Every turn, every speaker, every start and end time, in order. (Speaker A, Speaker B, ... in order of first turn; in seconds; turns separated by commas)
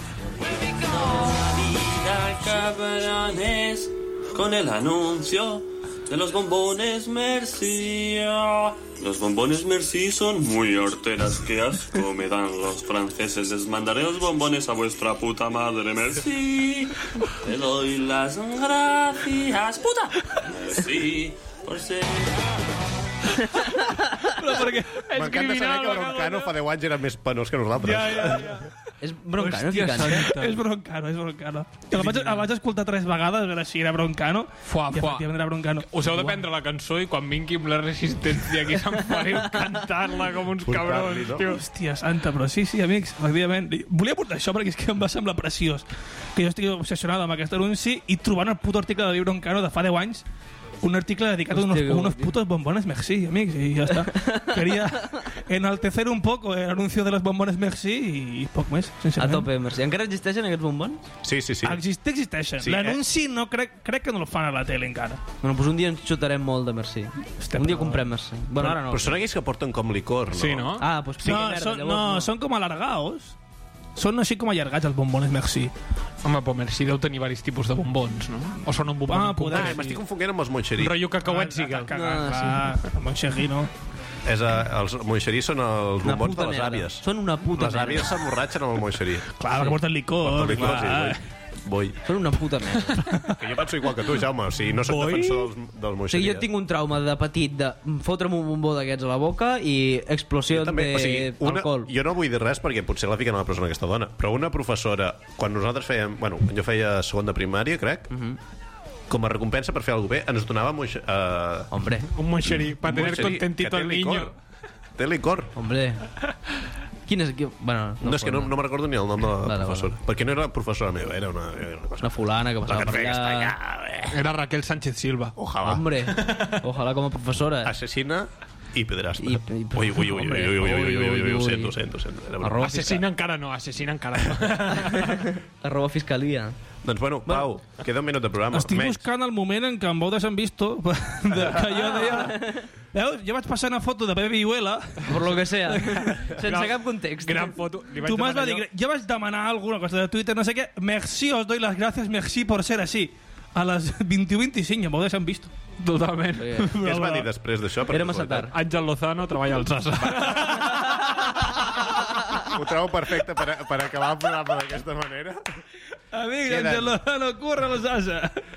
Speaker A: 0.6-22.5, Speaker B: 24.2-25.1, Speaker C: 25.0-26.6, Speaker D: 25.1-28.6, Speaker C: 27.8-28.7, Speaker E: 29.0-30.3, Speaker C: 29.4-30.6, Speaker B: 30.1-36.4, Speaker C: 31.9-32.5, Speaker C: 34.6-41.6, Speaker D: 40.6-41.6, Speaker B: 41.4-50.2, Speaker B: 50.8-59.5, Speaker E: 51.5-52.4, Speaker E: 54.1-54.7, Speaker E: 59.2-61.1, Speaker D: 61.2-61.8, Speaker B: 61.6-65.2, Speaker D: 62.6-63.0, Speaker E: 65.4-69.2, Speaker B: 67.4-68.0, Speaker D: 68.6-70.7, Speaker C: 70.3-70.9, Speaker E: 70.8-72.3, Speaker B: 71.2-73.4, Speaker B: 74.0-75.7, Speaker C: 76.2-80.0, Speaker B: 79.1-79.8, Speaker D: 79.5-81.1, Speaker C: 80.8-81.9, Speaker B: 81.2-83.7, Speaker E: 81.9-82.7, Speaker D: 84.2-89.3, Speaker E: 86.0-88.2, Speaker B: 89.4-91.2, Speaker D: 90.2-92.0, Speaker E: 92.0-93.1, Speaker D: 93.4-96.5, Speaker C: 94.9-95.5, Speaker E: 96.1-101.9, Speaker D: 100.5-108.1, Speaker E: 108.1-108.4, Speaker D: 109.1-111.7, Speaker E: 111.7-112.1, Speaker C: 112.1-114.3, Speaker D: 112.4-114.3, Speaker D: 115.0-115.5, Speaker E: 115.6-116.0, Speaker E: 117.1-118.5, Speaker D: 118.0-122.1, Speaker E: 119.4-119.9, Speaker E: 122.0-123.5, Speaker D: 122.7-124.2, Speaker C: 124.1-125.4, Speaker D: 125.4-125.8, Speaker E: 125.6-127.7, Speaker C: 126.1-126.6, Speaker D: 127.6-132.8, Speaker E: 129.2-131.7, Speaker E: 132.4-133.0, Speaker C: 132.6-135.3, Speaker E: 134.9-136.6, Speaker D: 136.8-139.1, Speaker B: 138.5-146.4, Speaker E: 141.8-142.6, Speaker E: 145.1-147.6, Speaker C: 146.3-148.7, Speaker B: 148.0-155.5, Speaker C: 155.8-157.2, Speaker E: 156.4-156.8, Speaker D: 156.8-158.5, Speaker B: 156.9-157.2, Speaker E: 157.9-158.5, Speaker C: 158.5-161.3, Speaker B: 160.2-160.8, Speaker D: 162.4-165.6, Speaker B: 166.1-168.4, Speaker D: 166.5-167.0